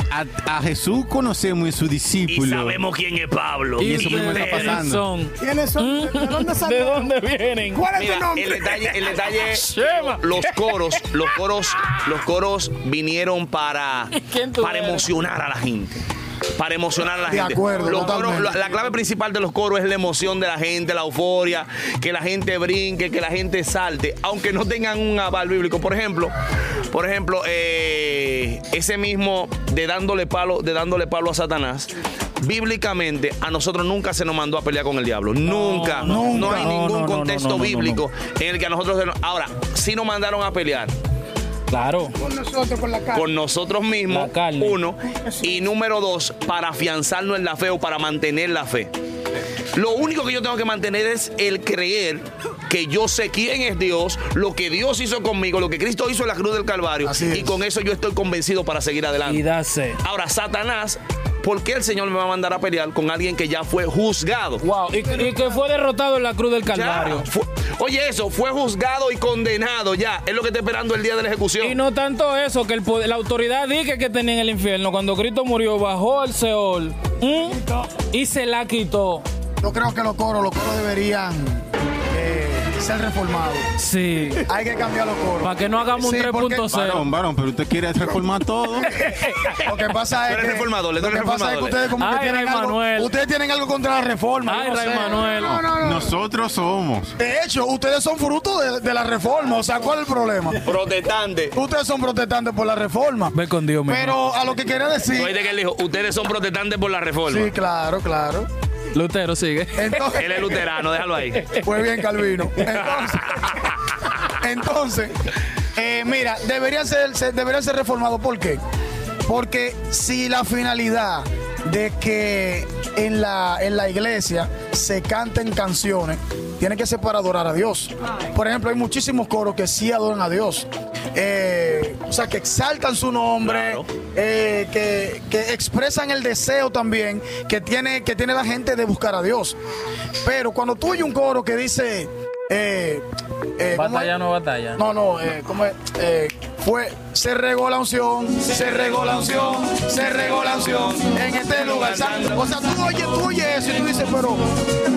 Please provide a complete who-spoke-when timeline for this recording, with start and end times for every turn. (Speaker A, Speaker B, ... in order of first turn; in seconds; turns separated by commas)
Speaker A: 0.1-2.8, Speaker B: 2.3-4.8, Speaker C: 3.8-7.8, Speaker A: 3.8-5.0, Speaker D: 5.4-7.1, Speaker D: 7.7-8.9, Speaker B: 7.9-16.0, Speaker C: 9.3-12.0, Speaker C: 14.1-15.1, Speaker B: 16.6-26.3, Speaker E: 17.2-18.5, Speaker B: 26.9-40.9, Speaker C: 35.4-38.0, Speaker E: 36.0-36.7, Speaker C: 41.7-42.2, Speaker D: 42.2-43.3, Speaker B: 43.1-48.9, Speaker C: 44.1-44.8, Speaker D: 45.1-45.5, Speaker B: 49.7-59.4, Speaker E: 57.0-57.6, Speaker C: 59.2-60.0, Speaker B: 60.0-64.6, Speaker C: 64.6-67.2, Speaker B: 66.7-71.8, Speaker C: 71.6-79.2, Speaker E: 79.6-83.7, Speaker C: 83.8-84.5, Speaker E: 84.5-86.7, Speaker C: 85.4-87.1, Speaker A: 86.7-89.0, Speaker C: 89.0-89.6, Speaker E: 89.5-95.2, Speaker B: 90.3-91.8, Speaker C: 92.0-93.1, Speaker C: 94.5-95.6, Speaker D: 95.3-96.1, Speaker A: 95.4-97.1, Speaker E: 97.2-100.6, Speaker B: 100.6-101.5, Speaker E: 101.5-103.3, Speaker C: 103.3-104.2, Speaker E: 103.9-105.3, Speaker B: 105.1-107.5, Speaker E: 107.3-108.5, Speaker C: 108.9-110.2, Speaker E: 109.8-110.6, Speaker B: 110.1-111.5, Speaker E: 111.6-113.7, Speaker E: 114.3-115.2, Speaker E: 115.8-118.6, Speaker E: 119.3-139.6, Speaker B: 133.4-133.8, Speaker E: 140.2-143.0, Speaker E: 143.6-144.1, Speaker C: 143.7-144.8, Speaker E: 144.8-154.5, Speaker B: 150.4-152.4